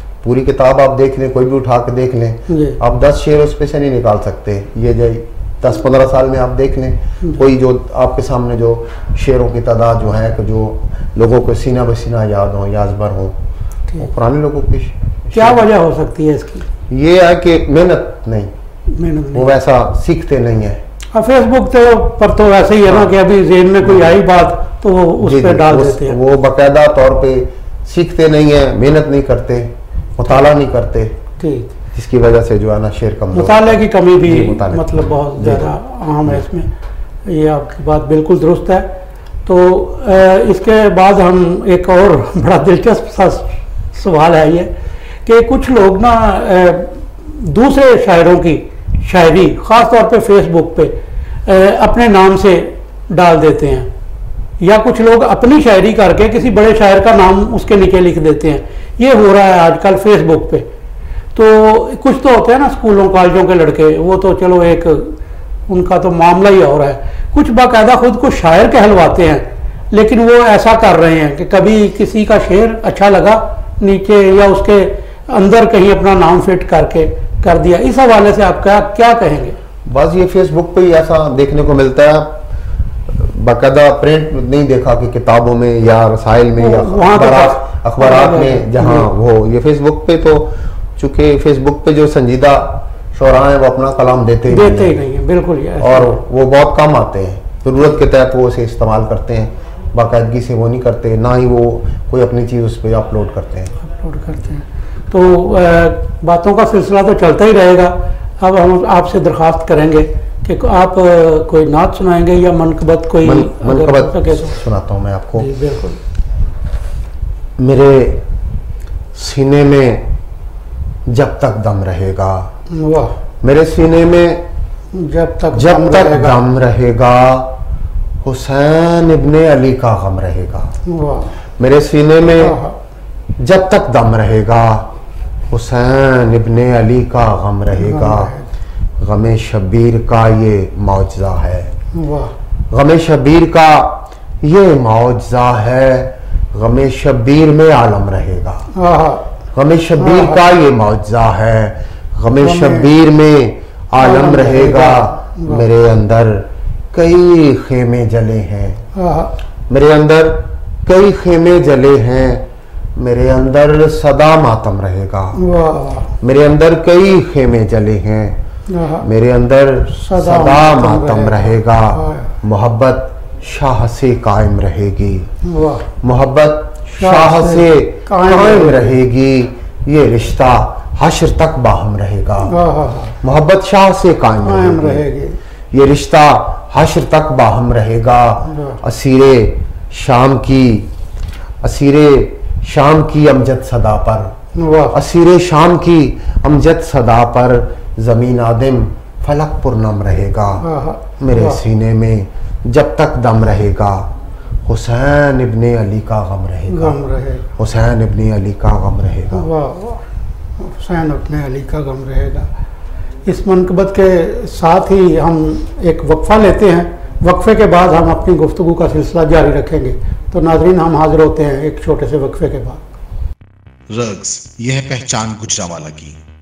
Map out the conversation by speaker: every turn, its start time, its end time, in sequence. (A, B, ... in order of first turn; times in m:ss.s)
0:00.2-0:13.4 A
0:02.5-0:02.8 B
0:14.0-0:15.7 A
0:15.3-0:16.7 B
0:16.9-0:18.5 A
0:18.9-0:19.5 B
0:19.3-0:20.8 A
0:21.1-0:26.2 B
0:22.9-0:23.2 A
0:23.8-0:24.2 A
0:25.2-0:31.2 A
0:31.4-0:31.7 B
0:31.9-0:35.7 A
0:33.3-0:36.7 B
0:37.3-0:44.7 B
0:45.3-0:51.0 B
0:51.5-0:53.9 B
0:54.6-1:00.7 B
1:01.4-1:19.6 B
1:19.9-1:22.4 A
1:23.1-1:35.0 A
1:26.6-1:29.1 B
1:34.5-1:36.2 B
1:35.8-1:43.8 A
1:43.8-1:54.6 B
1:53.2-1:55.5 A
1:55.4-1:56.0 B
1:57.6-1:58.2 A
1:59.1-2:00.1 A
2:01.1-2:02.5 A
2:02.7-2:03.2 B
2:03.4-2:04.5 A
2:04.9-2:06.4 B
2:05.5-2:07.6 A
2:08.2-2:10.8 A
2:10.9-2:11.4 B
2:11.6-2:12.6 A
2:12.4-2:12.8 B
2:13.4-2:14.9 A
2:15.5-2:18.4 A
2:17.8-2:18.5 B
2:19.0-2:21.7 A
2:21.9-2:22.3 B
2:22.7-2:28.7 A
2:28.7-2:29.3 B
2:29.5-2:38.9 A
2:30.0-2:30.4 B
2:32.4-2:32.9 B
2:34.0-2:35.7 B
2:39.0-2:39.3 B
2:39.7-2:45.4 A
2:45.4-2:46.1 B
2:46.2-2:48.4 A
2:48.7-2:49.1 B
2:49.0-2:55.3 A
2:50.0-2:52.3 B
2:55.4-2:55.9 B
2:56.0-3:02.6 A
2:56.9-2:58.9 B
3:02.5-3:03.2 B
3:03.2-3:05.1 A
3:04.4-3:05.4 B
3:05.7-3:10.9 A
3:08.5-3:08.8 B
3:11.6-3:14.4 A
3:14.6-3:15.0 B
3:14.9-3:20.7 A
3:20.6-3:21.6 B
3:21.2-3:24.1 A
3:24.7-3:27.0 A
3:26.7-3:27.5 B
3:27.6-3:29.5 A
3:29.3-3:30.1 B
3:30.6-3:32.5 B
3:33.2-3:42.9 B
3:43.9-3:46.2 C